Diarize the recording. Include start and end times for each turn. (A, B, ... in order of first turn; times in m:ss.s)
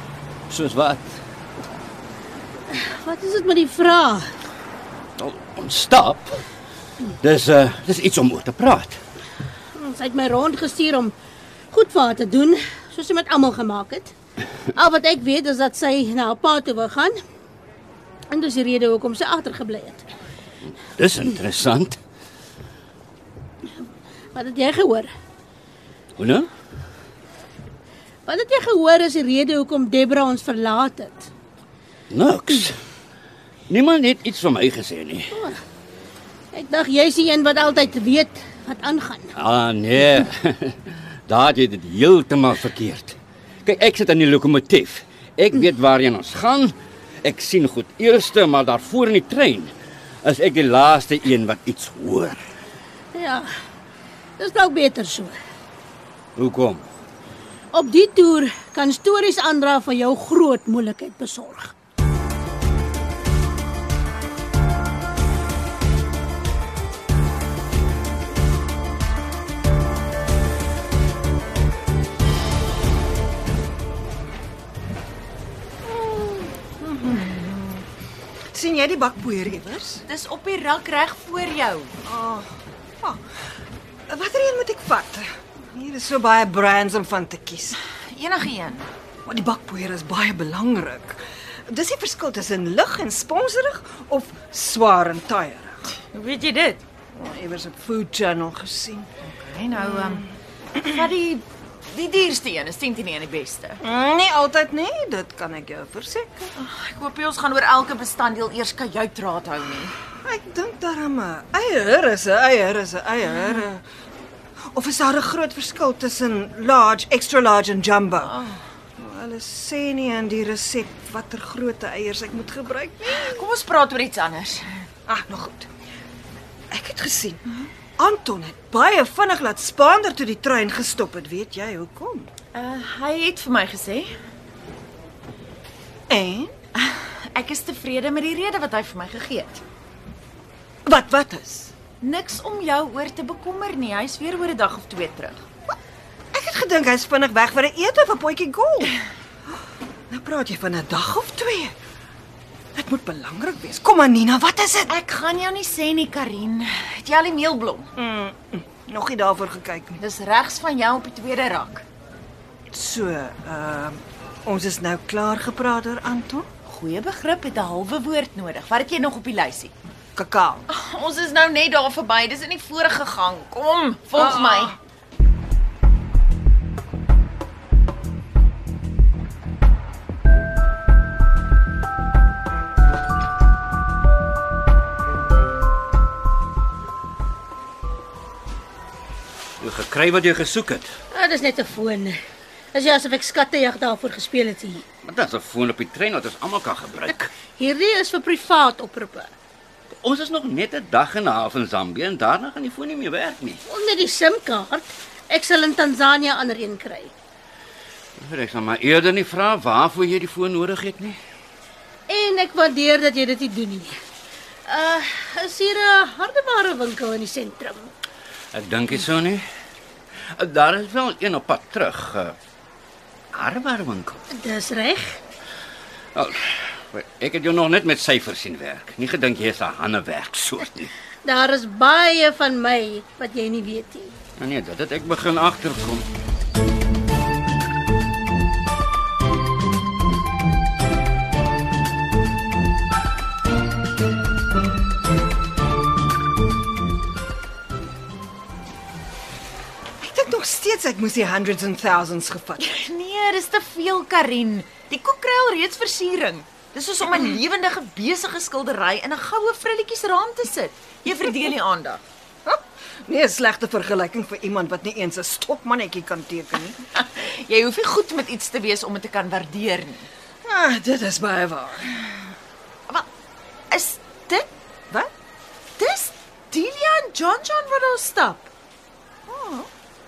0:00.5-0:01.2 A
0:02.7-0:04.3 B
0:05.2-0:06.4 A
0:07.2-0:09.0 A
0:09.7-0:11.1 B
0:11.7-0:14.1 B
0:14.7-0:17.2 B
0:18.3-0:20.0 B
0:21.0-0:22.0 A
0:24.3-0:25.1 B
0:26.2-0:26.5 A
0:28.2-0:31.3 B
0:32.1-0:32.8 A
0:33.7-0:35.3 A
0:35.3-0:35.6 B
0:36.5-0:39.3 B
0:39.4-0:52.4 A
0:53.1-0:53.5 B
0:54.4-0:55.3 B
0:56.4-0:56.8 A
0:57.7-1:01.7 B
1:15.8-1:17.4 C
1:17.4-1:17.7 D
1:18.5-1:20.0 C
1:20.0-1:21.9 D
1:22.0-1:23.2 C
1:24.1-1:27.8 C
1:28.0-1:28.9 D
1:29.2-1:35.9 C
1:36.1-1:36.8 D
1:37.1-1:39.1 C
1:39.2-1:43.8 D
1:39.9-1:40.2 C
1:43.8-1:46.5 C
1:46.6-1:50.0 D
1:50.2-1:53.8 C
1:54.7-2:03.4 C
2:03.0-2:04.8 D
2:05.1-2:05.7 C
2:06.7-2:07.4 C
2:08.0-2:12.3 C
2:12.5-2:14.1 D
2:16.1-2:16.5 C
2:16.8-2:19.6 D
2:20.8-2:21.7 C
2:22.0-2:25.4 D
2:26.3-2:28.9 C
2:30.1-2:31.7 C
2:32.8-2:34.9 C
2:34.8-2:37.9 D
2:38.0-2:40.0 C
2:40.0-2:41.8 D
2:42.7-2:46.5 C
2:46.6-2:49.7 D
2:50.2-2:50.6 C
2:50.7-2:54.8 D
2:54.2-2:54.7 C
3:09.6-3:10.9 A
3:11.1-3:12.2 B
3:12.7-3:14.8 B
3:15.0-3:17.3 A
3:17.5-3:19.3 B
3:19.9-3:23.6 A
3:23.6-3:27.1 B
3:28.2-3:31.2 A
3:32.1-3:33.9 B
3:34.6-3:37.9 B
3:38.5-3:39.4 A
3:40.3-3:42.4 A
3:43.3-3:44.2 A
3:44.3-3:45.2 B
3:46.1-3:50.9 A
3:51.2-3:54.1 B
3:54.4-3:56.1 A
4:10.0-4:12.7 C
4:12.6-4:22.0 D
4:22.4-4:26.8 C
4:26.8-4:30.1 D
4:30.4-4:32.2 C
4:33.7-4:34.5 D
4:35.8-4:38.5 D
4:39.3-4:39.7 C